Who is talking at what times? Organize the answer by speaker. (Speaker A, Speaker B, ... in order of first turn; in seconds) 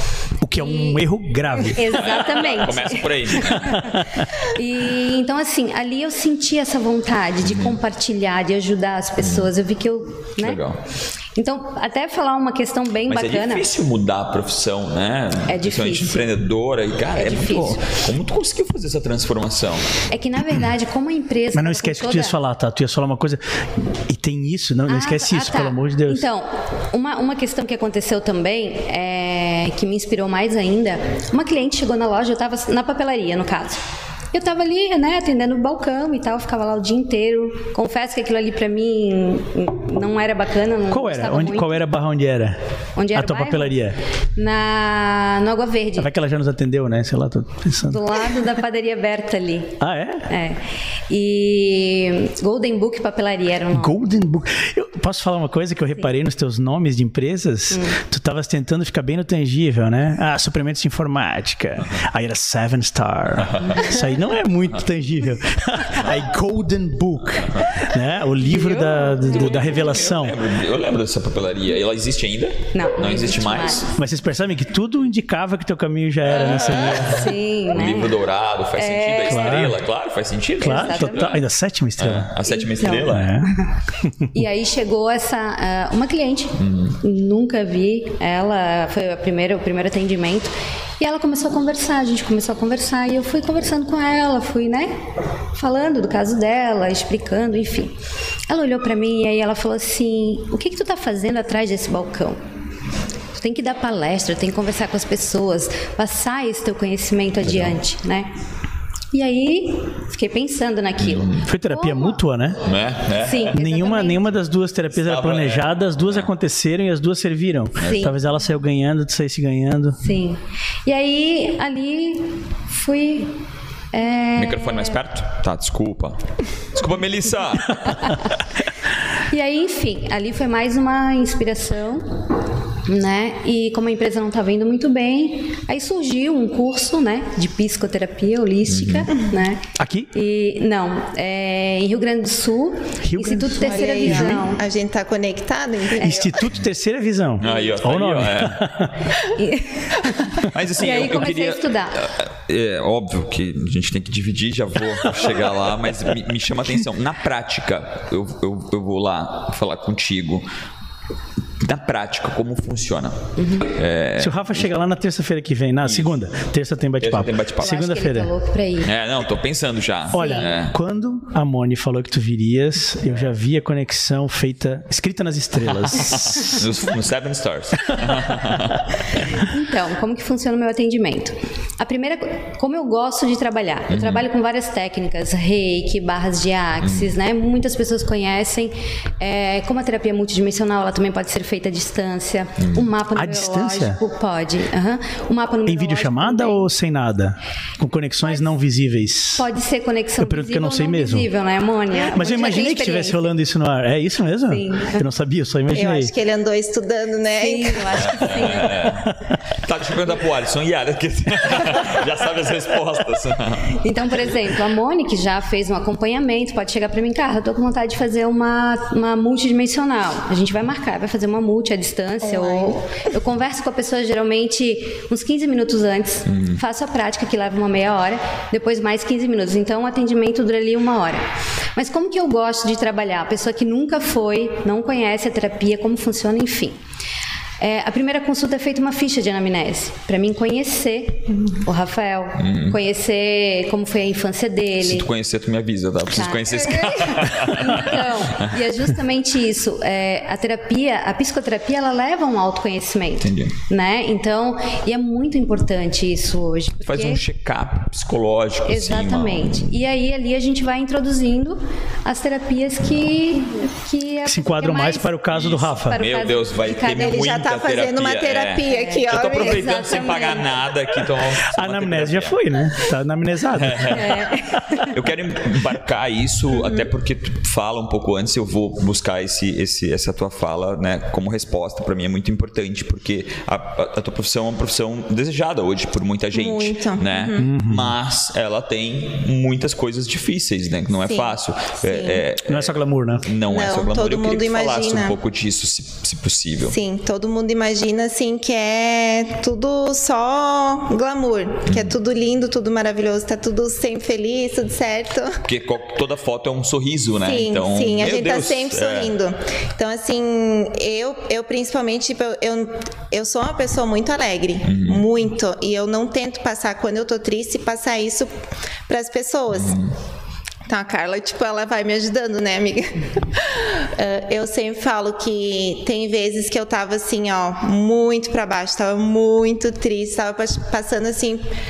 Speaker A: 0.4-1.8, 3.8-4.0, 21.5-26.2, 40.9-42.6, 43.1-44.0, 46.0-48.4, 49.8-50.3, 53.7-70.4, 74.0-77.4, 79.3-79.8, 80.6-82.3, 83.0-84.3, 111.5-112.6, 113.5-120.0, 139.8-140.1, 143.0-144.5, 146.0-149.1, 164.2-168.3, 170.1-176.7, 193.1-194.0, 195.6-199.5, 200.2-201.3, 202.1-206.1, 264.2-266.0, 271.5-274.2, 287.4-288.0, 292.4-293.3
Speaker B: 0.6-1.0, 1.6-10.6, 11.3-13.7, 15.5-16.3, 17.1-17.9, 20.1-22.4, 24.9-33.8, 34.3-41.8, 43.0-43.8, 44.4-46.1, 47.9-54.0, 57.7-58.0, 68.4-69.6, 72.7-73.9, 76.3-78.2, 78.8-79.7, 80.6-81.4, 82.5-83.7, 84.3-94.9, 95.5-98.0, 98.5-102.4, 103.4-108.3, 109.1-112.2, 113.2-114.2, 117.8-118.1, 120.0-123.4, 123.9-125.0, 127.9-128.2, 129.3-132.2, 132.9-144.6, 149.3-152.0, 163.4-163.7, 167.6-168.9, 170.1-170.5, 179.4-196.7, 199.4-203.3, 204.5-205.1, 207.4-208.9, 213.7-231.2, 231.8-236.8, 237.6-245.1, 246.1-257.2, 258.6-265.1, 265.8-267.2, 268.7-270.5, 273.9-274.9
Speaker C: 1.7-3.9, 7.4-7.8, 9.2-9.5, 10.4-10.8, 13.1-20.0, 63.4-63.8, 69.2-73.9, 76.5-77.0, 77.7-81.3, 82.0-83.3, 86.6-87.0, 107.4-107.8, 111.0-111.5, 112.6-113.6, 114.9-116.3, 117.8-118.1, 124.4-126.2, 126.7-128.1, 138.7-139.1, 147.4-148.7, 150.4-160.5, 161.6-164.7, 165.8-166.2, 167.0-167.8, 168.8-170.8, 175.8-179.3, 183.9-184.2, 186.8-187.1, 192.6-192.9, 208.0-213.8, 226.3-226.6, 242.4-242.8, 244.8-248.6, 253.2-253.5, 256.9-259.7, 265.3-272.4, 273.5-274.3, 274.9-296.8, 301.7-301.9, 305.4-309.1, 314.6-315.1, 319.5-319.9
Speaker D: 143.6-146.5, 205.7-208.5, 222.2-222.8, 246.7-247.2, 266.9-269.8, 276.6-276.9, 286.3-287.5, 291.1-292.2, 293.5-295.1, 296.7-305.4, 307.2-318.3, 318.9-319.8, 320.7-331.5